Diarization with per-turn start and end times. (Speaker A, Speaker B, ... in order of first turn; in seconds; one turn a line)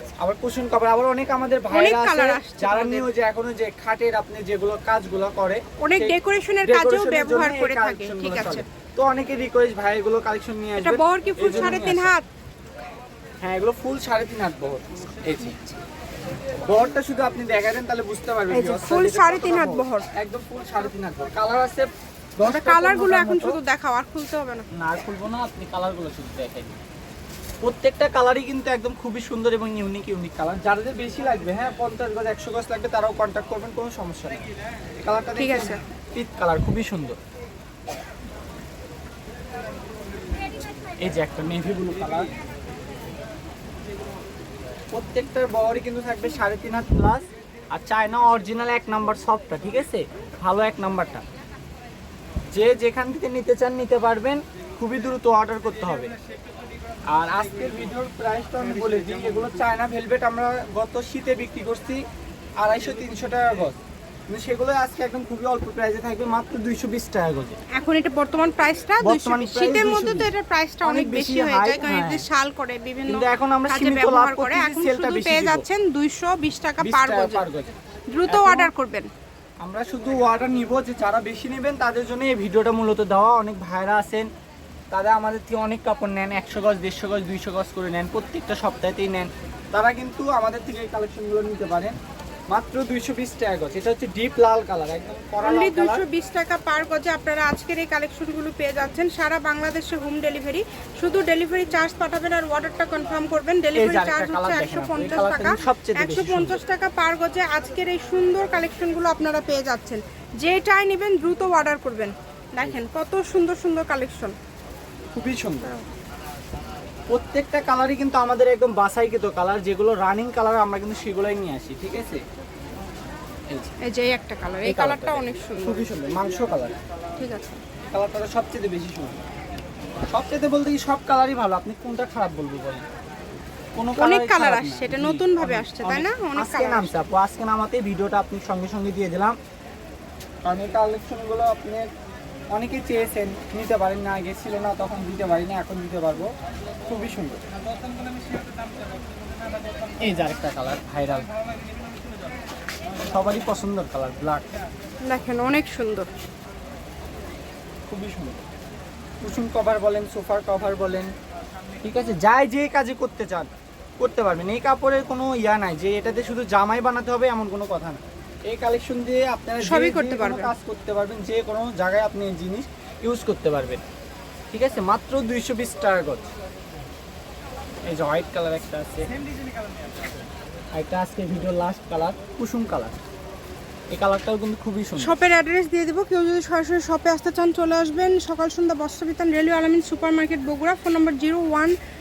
Speaker A: 0.2-12.1
Speaker B: 1.7-3.1
Speaker B: 5.8-8.6
Speaker B: 10.8-12.3
Speaker A: 13.4-15.6
Speaker B: 15.4-15.8
Speaker A: 16.6-23.6
Speaker B: 18.5-20.1
Speaker B: 22.4-24.6
Speaker A: 24.7-26.8
Speaker A: 27.6-34.4
Speaker A: 35.0-37.2
Speaker B: 35.4-35.8
Speaker A: 41.0-42.3
Speaker A: 44.9-51.2
Speaker A: 52.5-56.1
Speaker A: 57.1-62.0
Speaker A: 62.6-67.6
Speaker B: 67.7-77.4
Speaker A: 69.0-70.3
Speaker A: 70.8-72.2
Speaker A: 73.1-75.6
Speaker A: 76.8-77.7
Speaker B: 78.1-79.1
Speaker A: 78.3-78.7
Speaker A: 79.6-84.3
Speaker A: 84.9-92.0
Speaker A: 92.5-96.0
Speaker B: 95.4-114.3
Speaker A: 103.8-106.6
Speaker A: 115.1-115.7
Speaker A: 117.1-122.2
Speaker A: 123.5-123.7
Speaker B: 123.8-125.8
Speaker A: 124.6-126.7
Speaker B: 127.2-127.6
Speaker A: 127.9-129.2
Speaker A: 130.1-132.8
Speaker A: 133.8-139.4
Speaker B: 133.9-136.9
Speaker A: 140.4-141.9
Speaker A: 142.5-146.3
Speaker A: 146.8-147.4
Speaker A: 150.0-151.3
Speaker A: 153.0-154.5
Speaker B: 155.0-156.1
Speaker A: 157.9-158.4
Speaker A: 159.2-161.1
Speaker A: 161.8-173.8
Speaker B: 169.6-170.5
Speaker A: 174.5-176.3
Speaker A: 177.9-179.1
Speaker A: 180.8-183.0
Speaker A: 183.9-185.2
Speaker B: 185.0-191.7